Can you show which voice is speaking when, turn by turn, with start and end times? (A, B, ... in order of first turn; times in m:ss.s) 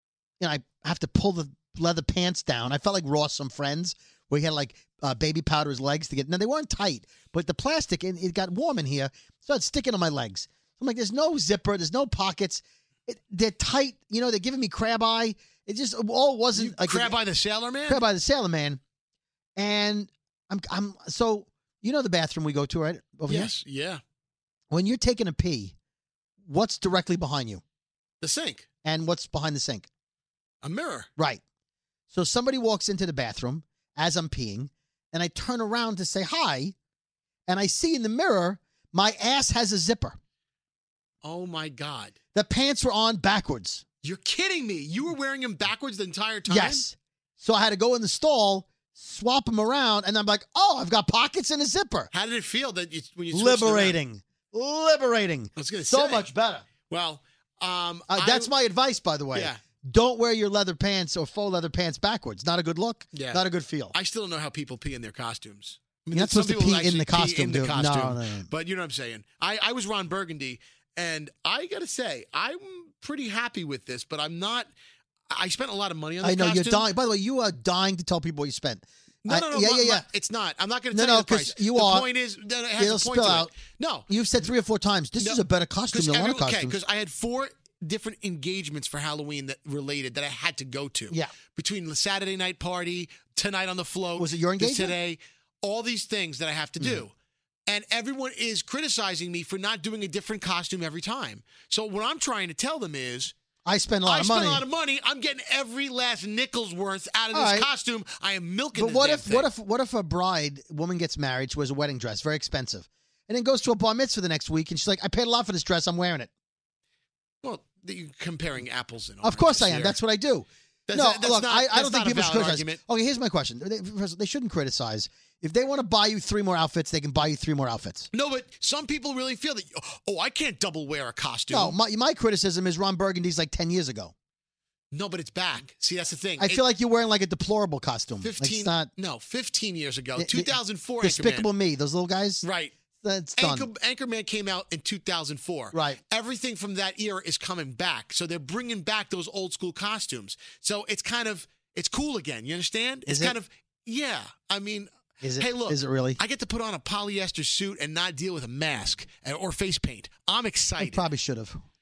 0:00.4-0:17.1 A
0:16.6-0:18.0 B
0:17.9-0:18.8 A
0:19.6-0:23.5 A
0:23.3-0:24.0 B
0:24.7-0:25.7 A
0:26.4-0:27.6 A
0:28.2-0:28.6 B
0:28.8-0:29.9 A
0:30.6-0:31.1 B
0:31.2-0:31.4 A
0:32.1-0:36.8 A
0:37.5-0:40.2 A
0:41.2-0:42.1 B
0:42.3-0:43.8 A
0:44.0-0:46.8 B
0:46.5-0:52.1 A
0:52.1-0:54.0 B
0:53.3-0:56.6 A
0:55.6-0:58.5 B
0:58.1-1:04.0 A
0:59.3-0:59.6 B
1:03.1-1:03.4 B
1:03.9-1:14.7 B
1:06.1-1:08.5 A
1:15.3-1:16.9 B
1:16.2-1:20.1 A
1:19.2-1:24.1 B
1:20.9-1:22.1 A
1:22.8-1:23.5 A
1:24.1-1:26.8 A
1:25.2-1:37.1 B
1:34.2-1:35.0 A
1:37.7-1:43.3 B
1:43.6-1:44.6 A
1:44.1-1:49.5 B
1:47.3-1:47.7 A
1:48.8-1:56.3 A
1:57.4-2:00.0 B
1:59.2-2:08.1 A
2:00.9-2:02.8 B
2:08.1-2:11.8 B
2:11.5-2:14.1 A
2:14.9-2:16.6 B
2:16.4-2:18.9 A
2:18.2-2:21.5 B
2:20.2-2:23.7 A
2:22.4-2:22.7 B
2:23.4-2:41.0 B
2:25.7-2:26.0 A
2:33.1-2:33.4 A
2:35.2-2:36.2 A
2:40.8-2:41.6 A